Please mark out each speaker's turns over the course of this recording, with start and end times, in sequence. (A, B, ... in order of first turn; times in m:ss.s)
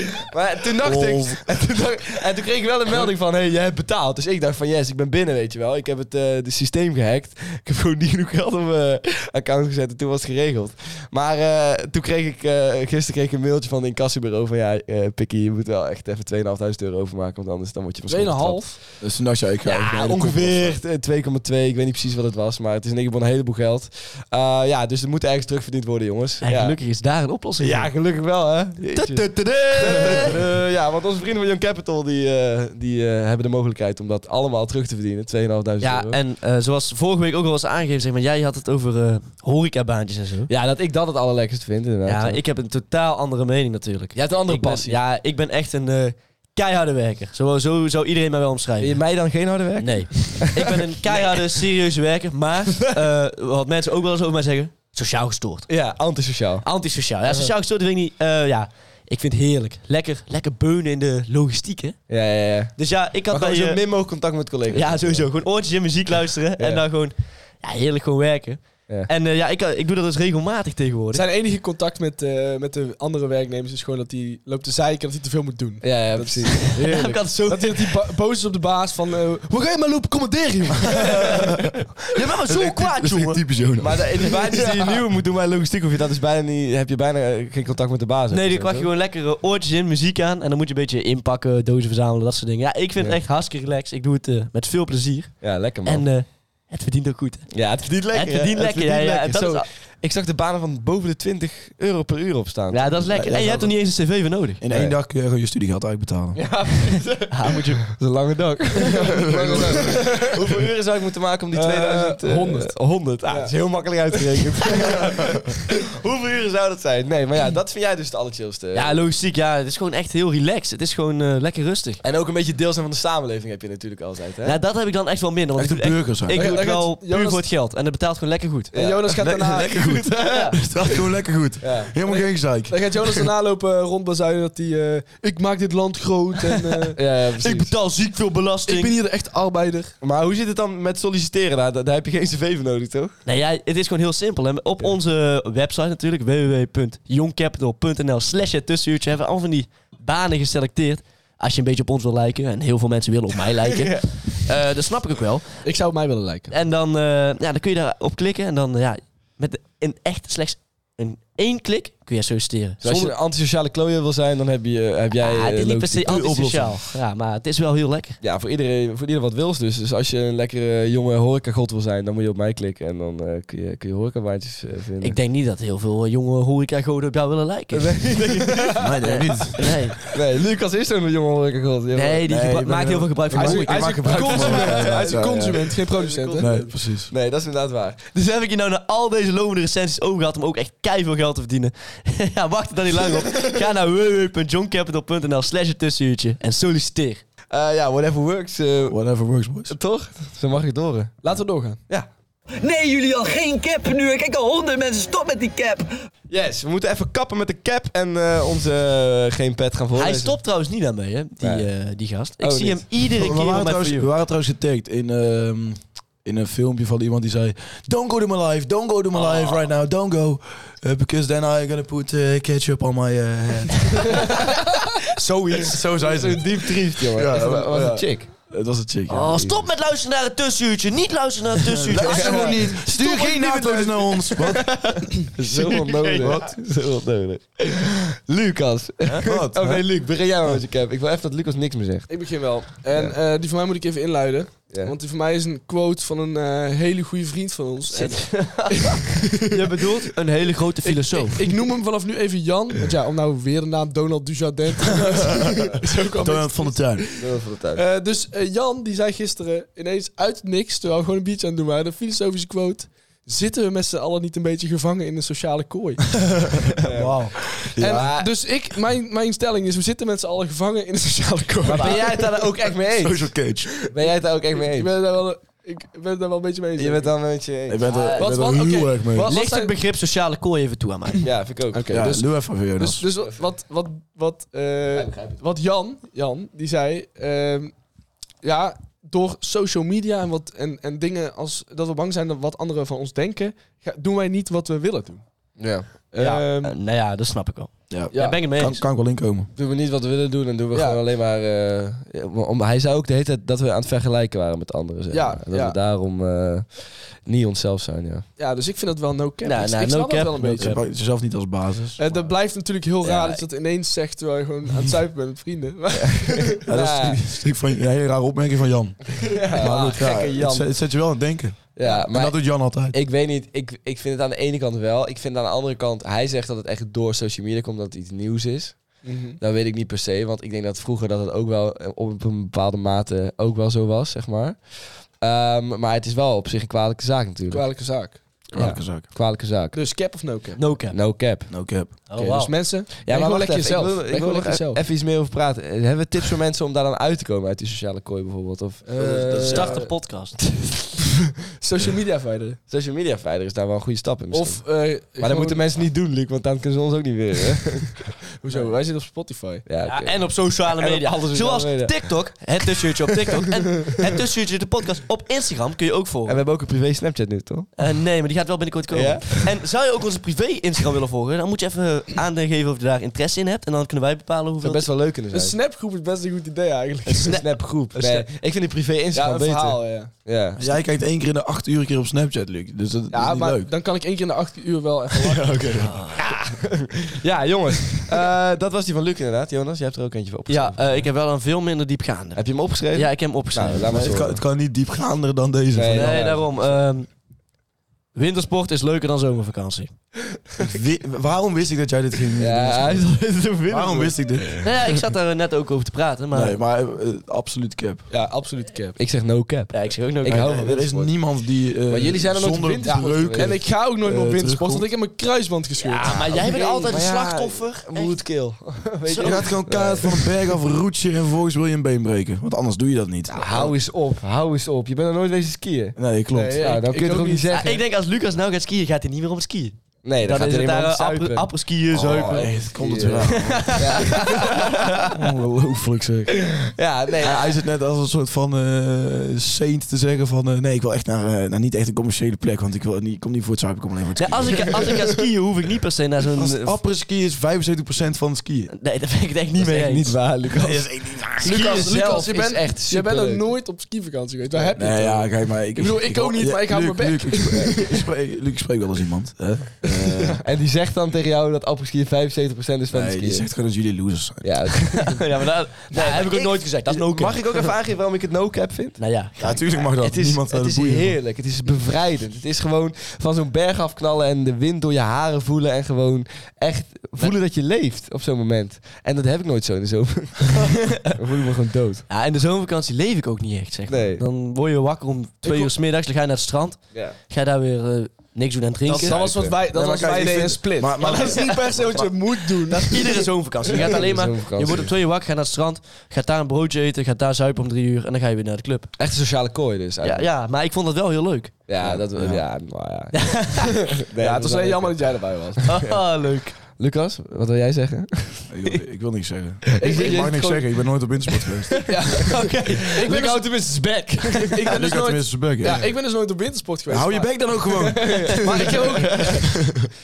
0:00.3-0:18.9 A
0:00.8-0:01.5 B
0:18.1-0:18.8 C
0:19.0-0:20.8 B
0:19.6-0:26.8 A
0:26.4-0:27.9 D
0:27.6-0:36.2 A
0:28.9-0:30.4 D
0:35.8-0:40.5 D
0:40.5-0:42.4 A
0:42.0-0:49.0 D
0:44.1-0:45.0 A
0:48.8-0:51.4 A
0:49.8-0:55.7 D
0:55.7-0:56.6 A
0:56.6-1:02.0 D
1:02.1-1:05.3 A
1:02.8-1:03.8 D
1:04.7-1:11.2 D
1:06.6-1:06.8 A
1:11.1-1:21.5 C
1:15.8-1:17.0 A
1:16.5-1:18.0 D
1:22.1-1:23.6 D
1:22.4-1:24.3 B
1:23.8-1:28.9 A
1:24.2-1:24.8 D
1:28.3-1:39.7 D
1:35.4-1:36.1 A
1:37.5-1:43.7 A
1:42.7-1:44.9 D
1:43.1-1:43.7 B
1:44.6-1:46.4 B
1:46.3-1:59.0 A
1:47.3-1:48.0 D
1:49.0-1:50.2 B
1:49.0-1:50.3 C
1:51.5-1:52.7 C
1:53.3-1:53.5 C
1:54.1-1:55.0 C
1:58.7-2:02.0 D
2:02.0-2:04.6 A
2:04.4-2:08.7 D
2:05.6-2:06.5 B
2:06.3-2:07.4 C
2:08.7-2:09.1 A
2:08.7-2:09.9 C
2:09.2-2:13.3 B
2:10.0-2:10.6 D
2:10.2-2:10.6 A
2:11.6-2:11.9 A
2:12.0-2:17.0 C
2:16.9-2:17.7 A
2:17.4-2:19.0 D
2:18.7-2:19.9 C
2:20.0-2:23.2 A
2:23.2-2:35.6 D
2:33.7-2:34.1 A
2:35.6-2:36.5 C
2:36.5-2:43.1 D
2:42.8-2:46.2 A
2:45.1-2:48.2 D
2:46.0-2:46.8 B
2:48.2-2:55.2 A
2:55.0-2:58.7 D
2:57.7-2:58.8 A
2:58.6-2:58.8 C
2:58.8-2:59.8 B
2:59.6-3:00.1 D
3:00.1-3:02.2 A
3:01.9-3:04.7 D
3:02.3-3:05.6 B
3:03.3-3:06.6 C
3:03.8-3:08.0 A
3:05.8-3:06.6 D
3:06.4-3:07.1 B
3:08.1-3:17.2 D
3:17.5-3:19.0 A
3:18.9-3:19.8 B
3:19.7-3:21.2 A
3:21.2-3:21.8 C
3:22.6-3:25.9 E
3:26.3-3:30.4 A
3:29.9-3:34.1 D
3:31.4-3:31.7 A
3:32.4-3:32.9 A
3:33.1-3:44.3 B
3:39.3-3:39.6 D
3:45.5-3:48.3 A
3:45.5-3:49.6 B
3:49.1-3:53.5 D
3:51.6-3:55.2 B
3:52.0-3:52.5 C
3:52.1-3:52.6 A
3:54.5-4:03.1 A
3:55.5-3:56.4 D
3:56.1-3:56.5 B
3:59.2-3:59.8 B
4:02.1-4:09.5 C
4:04.7-4:04.9 A
4:07.9-4:11.5 D
4:10.8-4:26.7 C
4:16.2-4:17.2 B
4:17.2-4:17.8 A
4:26.5-4:28.1 B
4:26.8-4:27.2 A
4:27.8-4:28.3 A
4:27.8-4:32.7 C
4:31.6-4:34.9 A
4:33.0-4:33.9 B
4:34.5-4:37.1 C
4:36.8-4:38.3 A
4:37.7-4:39.3 B
4:38.1-4:39.7 C
4:39.2-4:41.3 D
4:41.2-4:42.2 A
4:41.7-4:47.7 C
4:41.9-4:43.0 B
4:44.9-4:45.4 A
4:48.4-4:55.2 C
4:55.6-4:56.5 A
4:56.1-4:56.8 C
4:56.6-4:58.8 D
4:57.9-4:59.5 B
4:58.1-4:58.4 C
4:59.5-5:08.3 A
5:00.7-5:01.0 C
5:05.1-5:05.8 C
5:08.4-5:10.8 C
5:09.4-5:10.8 D
5:10.6-5:12.0 B
5:12.0-5:16.7 C
5:13.0-5:13.4 A
5:16.0-5:17.2 A
5:16.7-5:23.0 B
5:19.3-5:20.8 A
5:21.7-5:38.0 A
5:29.0-5:29.4 C
5:37.5-5:38.2 C
5:38.5-5:39.8 A
5:38.5-5:39.1 B
5:39.7-5:40.8 C
5:40.6-5:41.0 D
5:40.9-5:41.7 A
5:41.5-5:41.9 B
5:42.1-5:42.8 D
5:42.2-5:44.8 C
5:42.9-5:49.8 A
5:48.8-5:49.9 C
5:49.3-5:50.4 D
5:51.6-5:52.6 C
5:52.7-5:58.7 A
5:54.3-5:55.7 C
5:58.2-5:59.6 C
5:59.6-6:02.2 A
5:59.8-6:06.4 D
6:06.2-6:07.7 A
6:07.8-6:14.9 D
6:08.9-6:09.4 A
6:14.6-6:15.6 A
6:15.3-6:17.4 C
6:17.1-6:18.3 D
6:17.3-6:20.6 A
6:19.1-6:20.1 C
6:20.6-6:23.7 B
6:23.1-6:25.7 C
6:25.2-6:26.0 B
6:25.9-6:26.2 D
6:26.1-6:30.8 A
6:30.5-6:34.0 D
6:32.3-6:34.4 A
6:33.9-6:36.3 B
6:35.7-6:36.7 A
6:35.9-6:37.1 D
6:38.1-6:39.9 D
6:40.6-6:44.8 B
6:42.4-6:44.2 A
6:44.6-6:46.6 D
6:46.3-6:48.0 B
6:48.1-6:48.9 C
6:48.1-6:51.1 A
6:49.7-6:50.8 D
6:50.2-6:54.9 B
6:51.9-6:53.6 A
6:52.8-6:56.9 C
6:55.8-6:58.2 D
6:56.0-7:00.3 A
6:59.0-6:59.4 D
6:59.2-7:03.7 B
7:03.3-7:06.0 A
7:06.0-7:06.8 B
7:06.3-7:07.7 C
7:06.6-7:07.8 A
7:07.5-7:15.2 D
7:10.0-7:14.7 A
7:11.9-7:14.1 B
7:15.0-7:24.9 B
7:16.6-7:17.6 A
7:24.2-7:26.8 D
7:26.3-7:28.7 B
7:28.7-7:30.2 D
7:29.6-7:33.5 A
7:30.5-7:31.8 B
7:31.4-7:38.0 C
7:34.8-7:40.4 B
7:40.4-7:43.5 A
7:42.9-7:44.6 B
7:44.4-7:45.2 A
7:44.8-7:47.7 D
7:45.9-7:49.1 A
7:49.0-7:49.8 D
7:49.4-7:51.2 B
7:49.9-8:02.0 A
8:02.1-8:09.2 D
8:03.9-8:04.2 A
8:08.9-8:09.6 A
8:08.9-8:14.1 C
8:09.0-8:12.1 B
8:12.7-8:18.9 D
8:13.7-8:14.9 A
8:19.0-8:20.3 A
8:20.0-8:21.6 D
8:21.7-8:25.9 A
8:21.8-8:22.4 B
8:23.1-8:23.8 D
8:24.2-8:25.8 C
8:25.7-8:26.6 D
8:26.6-8:28.5 A
8:28.5-8:31.9 B
8:29.8-8:30.6 C
8:29.8-8:30.4 A
8:31.9-8:33.5 C
8:32.1-8:33.3 D
8:33.0-8:34.6 A
8:34.4-8:39.6 C
8:34.7-8:35.9 B
8:36.9-8:39.8 B
8:38.1-8:39.4 A